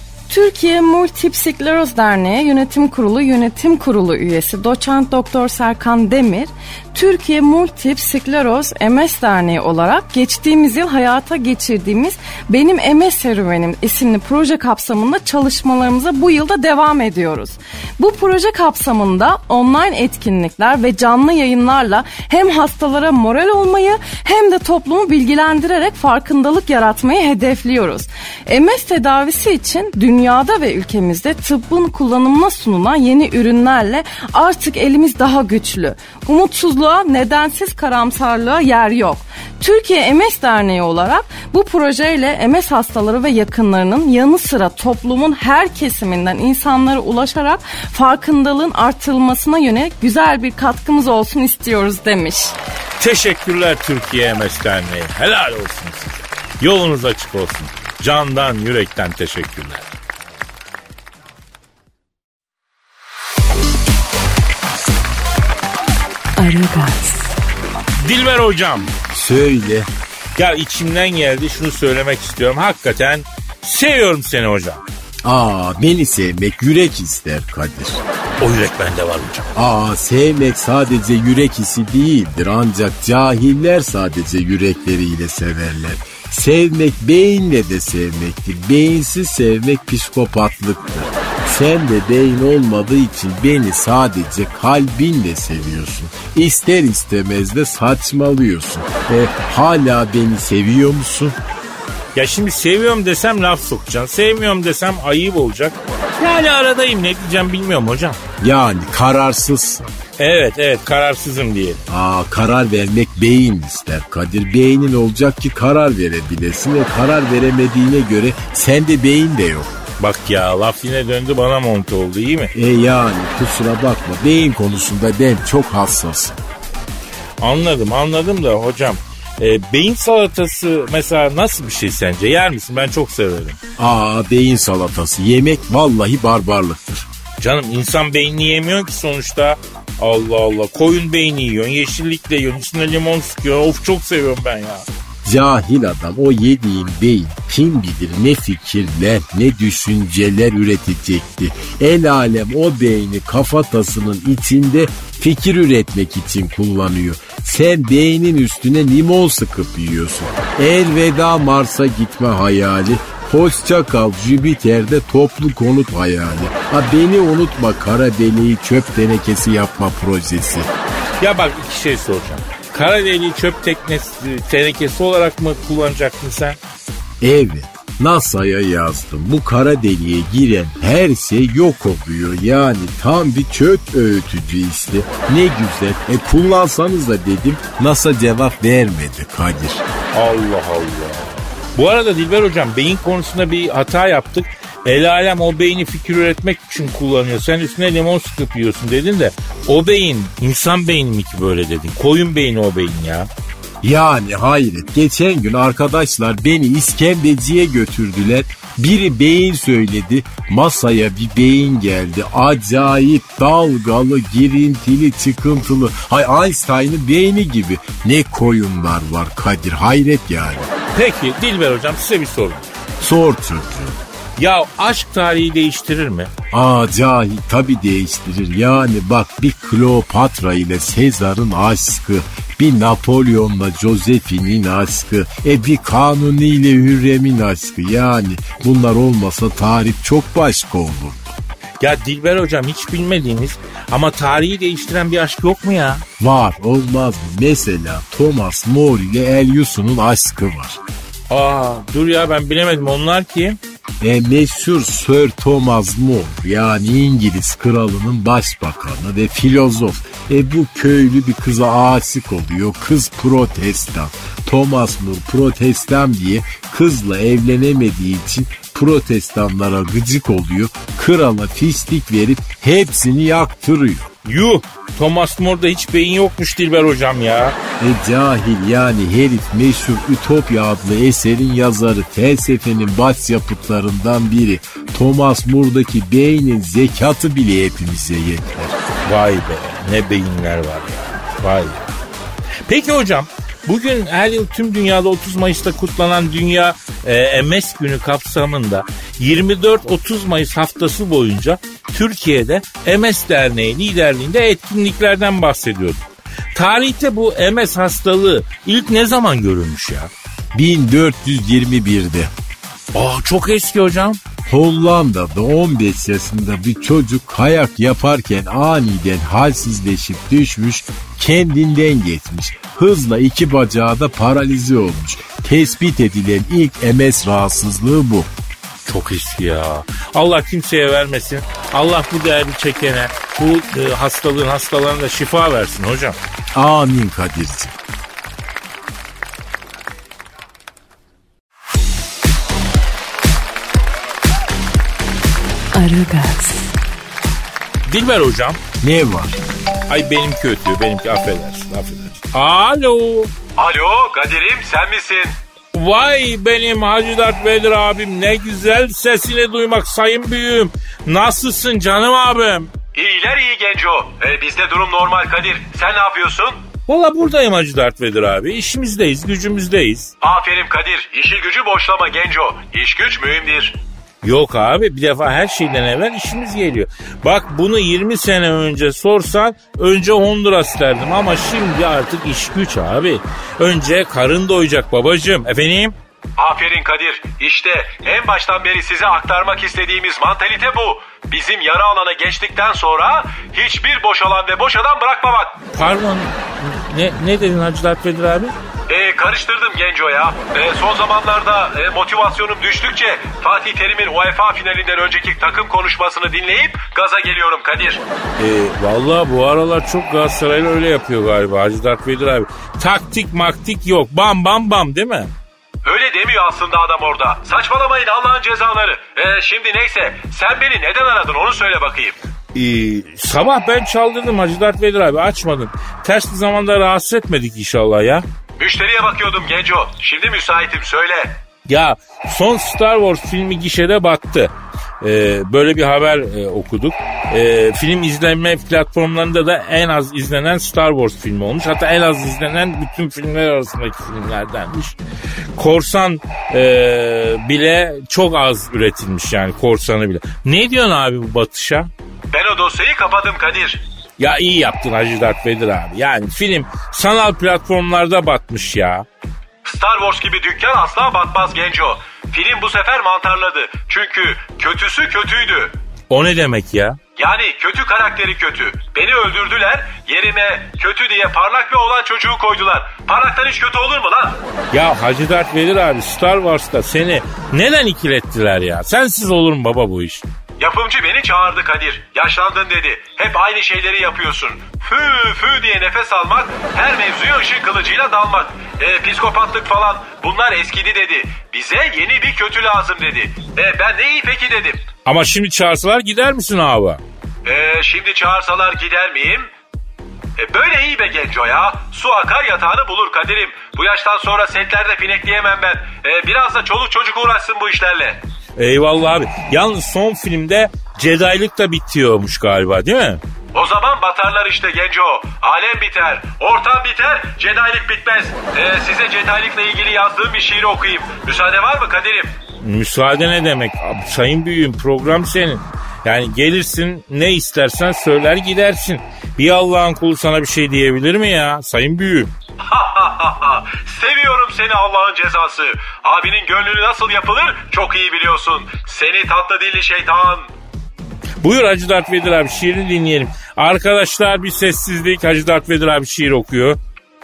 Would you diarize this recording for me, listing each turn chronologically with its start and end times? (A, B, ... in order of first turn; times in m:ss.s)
0:00.3-0:52.5 A
0:53.0-0:59.9 B
1:06.4-1:07.4 C
1:08.0-1:08.9 B
1:09.1-1:09.9 D
1:10.4-1:14.8 B
1:15.2-1:18.0 D
1:18.4-1:19.5 B
1:19.6-1:41.4 D
1:42.2-1:48.2 B
1:48.4-1:49.9 D
1:50.2-1:51.8 B
1:51.9-1:59.7 D
2:00.0-2:02.5 B
2:02.5-2:06.4 D
2:07.4-2:13.6 B
2:13.8-2:17.1 D
2:17.4-2:24.9 B
2:25.2-2:50.7 D
2:51.2-2:56.6 B
2:57.2-3:09.8 D
3:10.1-3:23.3 B
3:23.8-3:40.7 D
3:40.9-3:42.7 B
3:43.0-3:44.0 D
3:44.4-3:46.3 B
3:46.5-4:01.4 D
4:01.8-4:06.0 B
4:06.2-4:10.8 D
4:11.3-4:13.6 B
4:14.0-4:34.1 D
4:34.2-4:37.6 B
4:37.8-4:48.8 D
4:49.1-4:52.0 B
4:52.7-5:10.1 B
5:10.5-5:12.3 D
5:12.9-5:14.2 B
5:14.5-5:28.3 D
5:28.9-5:36.2 B
5:36.5-5:37.8 D
5:45.7-5:46.7 C
5:47.9-5:48.6 B
5:48.8-5:49.4 D
5:49.9-5:53.3 B
5:53.6-5:55.4 E
5:55.7-6:02.7 B
6:02.9-6:06.6 E
6:06.9-6:10.1 B
6:10.2-6:13.8 E
6:14.2-6:26.0 B
6:26.4-6:35.6 E
6:35.7-6:38.6 B
6:38.9-6:48.0 E
6:48.4-6:55.3 B
6:55.8-7:02.2 E
7:02.5-7:08.3 B
7:08.6-7:11.4 E
7:11.7-7:25.0 B
7:25.6-7:31.9 B
7:32.3-7:33.8 E
7:34.2-7:39.1 B
7:39.6-7:45.8 E
7:46.1-7:47.0 B
7:47.2-7:54.4 E
7:54.7-8:00.3 B
8:00.6-8:14.9 E
8:15.1-8:17.0 B
8:17.4-8:19.5 E
8:20.4-8:28.2 E
8:28.6-8:33.2 B
8:33.5-8:42.4 E
8:42.6-8:52.3 B
8:52.6-9:00.5 E
9:01.4-9:06.8 B